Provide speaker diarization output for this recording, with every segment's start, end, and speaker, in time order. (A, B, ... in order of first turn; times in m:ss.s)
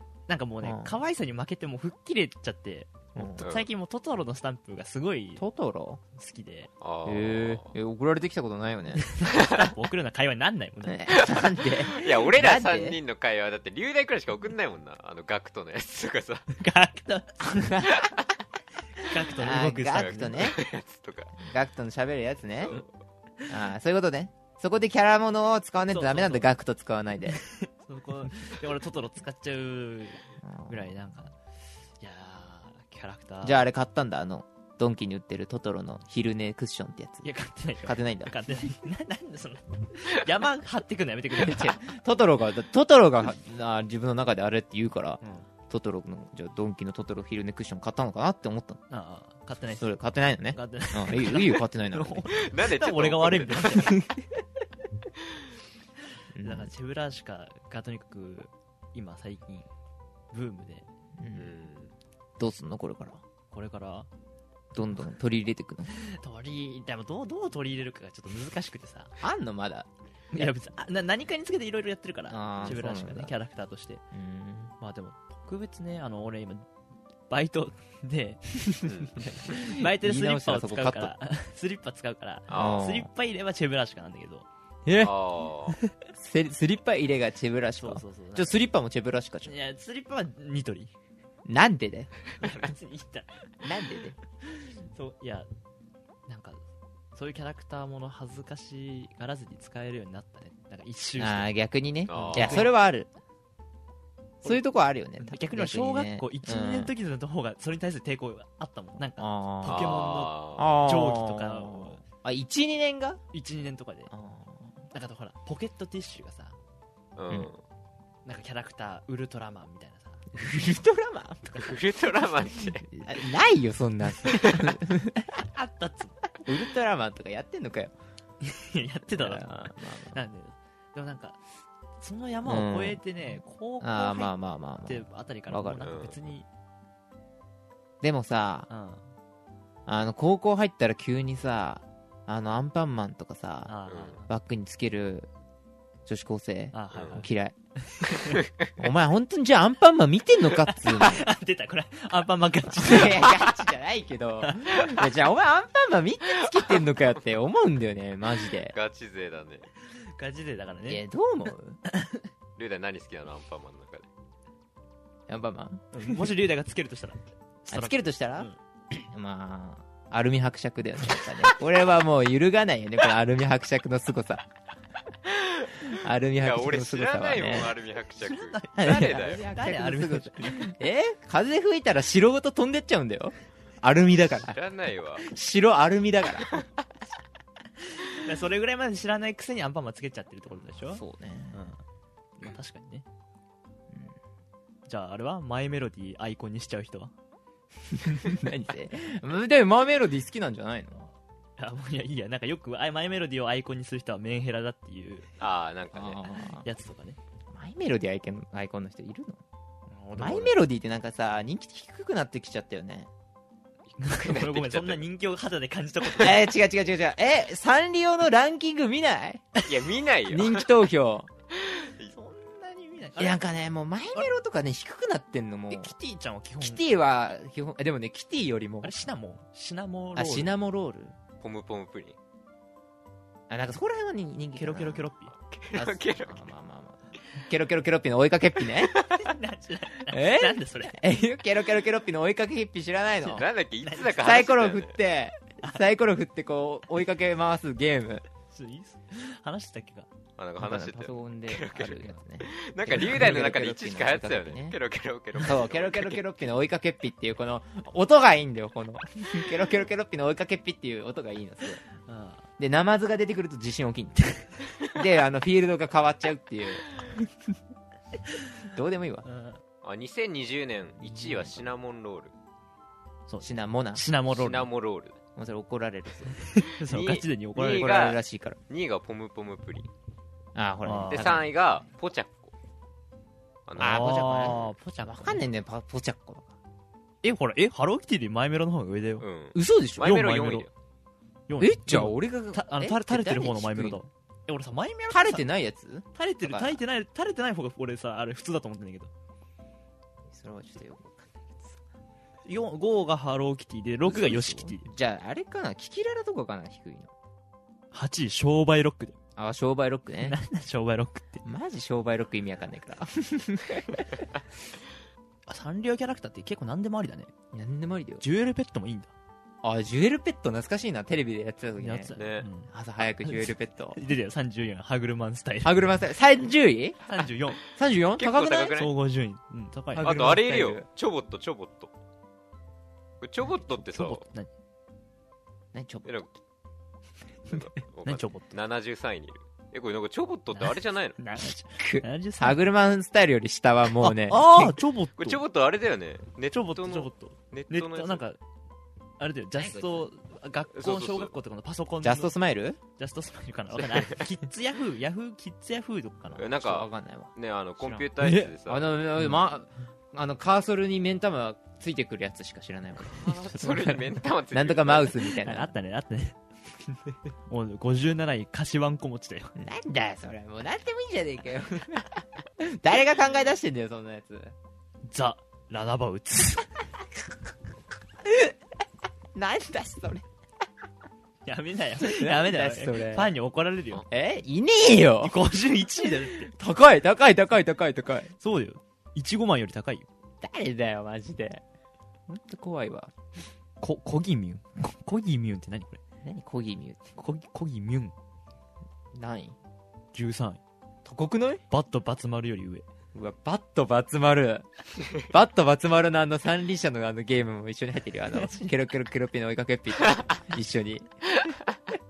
0:00.3-0:05.4 A
0:00.6-0:01.0 B
0:03.1-0:03.5 B
0:03.4-0:03.7 C
0:05.4-0:06.0 B
0:06.1-0:06.7 A
0:06.8-0:07.7 C
0:07.0-0:09.1 B
0:09.0-0:11.2 A
0:10.9-0:13.0 B
0:11.9-0:16.5 C
0:16.5-0:17.9 A
0:17.6-0:18.1 B
0:19.0-0:20.5 A
0:19.3-0:20.6 B
0:19.9-0:21.4 C
0:21.4-0:22.8 B
0:22.6-0:22.9 C
0:23.5-0:27.4 B
0:25.9-0:26.5 A
0:27.3-0:31.3 A
0:30.4-0:31.0 B
0:32.0-0:33.6 A
0:33.4-0:37.3 B
0:37.2-0:41.8 A
0:37.8-0:38.4 B
0:41.3-0:48.8 B
0:45.2-0:45.5 A
0:48.9-0:49.9 A
0:49.8-0:52.4 B
0:50.5-0:54.1 A
0:52.3-0:53.9 C
0:53.9-0:54.2 B
0:56.3-0:56.7 B
0:56.4-0:59.7 A
1:00.3-1:00.9 A
1:01.2-1:01.5 B
1:01.3-1:01.9 C
1:02.4-1:03.2 B
1:03.5-1:04.1 A
1:04.7-1:05.9 B
1:05.9-1:09.1 A
1:09.2-1:10.5 B
1:10.3-1:14.0 A
1:12.3-1:13.3 B
1:14.1-1:14.7 B
1:14.8-1:16.7 A
1:17.3-1:24.4 A
1:18.9-1:19.1 C
1:19.5-1:21.1 B
1:22.5-1:22.9 C
1:22.5-1:23.1 B
1:24.8-1:25.1 B
1:25.0-1:25.8 C
1:26.0-1:29.5 B
1:27.8-1:28.6 A
1:29.4-1:30.9 A
1:31.4-1:32.1 B
1:32.4-1:33.5 A
1:33.6-1:34.2 B
1:34.4-1:35.5 A
1:36.3-1:36.6 A
1:37.1-1:41.5 A
1:41.2-1:43.1 B
1:42.1-1:42.7 C
1:42.1-1:42.7 A
1:44.4-1:46.9 B
1:45.2-1:52.0 A
1:49.2-1:49.9 B
1:49.6-1:50.8 C
1:50.6-1:53.2 B
1:53.3-1:54.1 A
1:54.1-1:54.8 B
1:54.9-1:56.6 A
1:57.2-1:57.6 C
1:58.2-2:00.3 A
2:00.3-2:01.7 B
2:01.6-2:02.9 C
2:02.9-2:05.4 B
2:05.5-2:06.3 A
2:06.4-2:07.9 B
2:08.4-2:11.4 A
2:09.1-2:10.2 B
2:12.0-2:16.4 A
2:12.4-2:13.0 B
2:13.8-2:15.9 B
2:15.8-2:16.2 C
2:18.0-2:18.7 B
2:18.7-2:19.0 A
2:19.9-2:23.7 B
2:23.6-2:24.3 A
2:23.9-2:24.2 C
2:24.3-2:25.3 B
2:26.0-2:27.5 B
2:26.7-2:27.3 A
2:27.8-2:28.4 A
2:28.4-2:28.7 C
2:28.8-2:31.2 B
2:30.5-2:33.4 A
2:32.8-2:38.7 B
2:34.4-2:34.8 A
2:38.6-2:39.7 C
2:39.9-2:41.0 A
2:40.8-2:41.8 B
2:41.8-2:42.3 A
2:42.6-2:44.1 C
2:45.3-2:46.3 B
2:45.9-2:48.6 A
2:47.7-2:48.5 B
2:49.1-2:54.4 B
2:55.9-2:57.7 B
2:56.4-2:59.4 C
2:58.2-3:00.7 A
2:58.8-3:04.6 B
3:04.4-3:05.2 C
3:05.2-3:06.6 B
3:08.1-3:11.0 A
3:10.7-3:11.7 B
3:11.5-3:11.8 A
3:12.4-3:13.0 A
3:14.9-3:17.1 A
3:17.9-3:21.1 B
3:21.6-3:25.3 A
3:25.4-3:26.2 C
3:25.9-3:26.7 B
3:26.6-3:27.2 A
3:27.5-3:29.4 B
3:29.9-3:30.6 A
3:30.1-3:33.1 B
3:33.9-3:35.0 C
3:34.0-3:36.5 A
3:36.2-3:39.6 B
3:39.6-3:40.8 C
3:40.2-3:41.3 B
3:41.5-3:42.1 C
3:42.1-3:43.4 A
3:43.2-3:45.9 B
3:45.7-3:46.8 A
3:46.6-3:48.9 B
3:48.8-3:50.5 A
3:50.2-3:51.2 B
3:51.4-3:52.2 C
3:53.5-3:55.1 B
3:54.6-3:55.3 A
3:55.4-3:56.5 C
3:55.7-3:59.0 B
3:59.1-4:01.0 A
4:00.1-4:03.5 B
4:03.2-4:04.1 A
4:03.3-4:04.9 C
4:04.1-4:08.2 B
4:08.5-4:10.1 A
4:10.4-4:16.2 C
4:10.6-4:14.8 B
4:15.4-4:21.8 B
4:22.0-4:22.4 A
4:22.6-4:24.3 B
4:24.8-4:26.9 B
4:28.6-4:29.2 B
4:29.2-4:29.6 A
4:29.8-4:32.3 C
4:31.1-4:31.6 B
4:33.3-4:34.7 A
4:33.4-4:34.0 B
4:34.3-4:35.2 C
4:35.4-4:36.4 B
4:36.4-4:37.9 A
4:36.8-4:39.9 C
4:37.6-4:38.6 B
4:40.5-4:41.8 B
4:40.8-4:41.4 A
4:41.1-4:42.5 C
4:43.7-4:44.6 C
4:43.8-4:46.5 B
4:43.8-4:45.4 A
4:47.2-4:49.2 A
4:49.2-4:50.7 C
4:49.5-4:50.2 B
4:50.0-4:50.7 A
4:51.5-4:55.4 A
4:51.6-4:54.0 B
4:55.1-4:56.8 B
4:56.1-4:59.1 A
5:00.3-5:01.8 B
5:02.4-5:04.9 A
5:04.1-5:07.1 B
5:07.9-5:09.2 A
5:09.4-5:10.4 B
5:10.2-5:11.4 A
5:11.4-5:14.2 B
5:15.5-5:17.3 A
5:17.5-5:18.2 B
5:18.2-5:19.1 A
5:19.6-5:22.1 B
5:21.8-5:22.7 A
5:22.2-5:22.5 C
5:22.7-5:24.0 B
5:23.2-5:25.8 A
5:25.6-5:27.1 B
5:27.0-5:27.6 A
5:27.6-5:28.8 B
5:28.2-5:28.9 C
5:28.7-5:30.3 A
5:29.9-5:30.9 B
5:30.0-5:31.9 C
5:33.2-5:34.2 C
5:33.8-5:34.5 A
5:35.7-5:36.2 B
5:36.0-5:36.3 C
5:37.5-5:41.2 C
5:37.5-5:38.5 A
5:40.5-5:42.6 A
5:41.8-5:44.8 B
5:44.0-5:45.4 A
5:45.2-5:48.2 C
5:46.5-5:48.4 A
5:49.2-5:52.3 A
5:49.6-5:50.1 B
5:50.7-5:51.3 C
5:52.0-5:52.8 B
5:52.9-5:56.5 A
5:56.4-5:59.0 C
5:56.4-5:58.0 B
5:58.2-5:58.5 A
5:58.6-6:05.7 B
6:03.1-6:05.2 C
6:05.4-6:06.4 A
6:07.5-6:09.5 A
6:09.6-6:14.5 B
6:15.0-6:16.7 A
6:18.2-6:18.5 B
6:19.3-6:20.2 B
6:21.4-6:24.0 A
6:22.0-6:23.3 B
6:24.1-6:25.4 B
6:25.2-6:26.5 A
6:26.0-6:28.3 B
6:28.4-6:30.1 A
6:30.4-6:31.6 B
6:32.3-6:33.1 B
6:33.8-6:36.0 A
6:36.2-6:37.1 B
6:37.2-6:38.1 A
6:39.1-6:39.6 B
6:40.1-6:40.6 A
6:41.0-6:41.6 B
6:41.7-6:42.8 A
6:43.1-6:51.1 B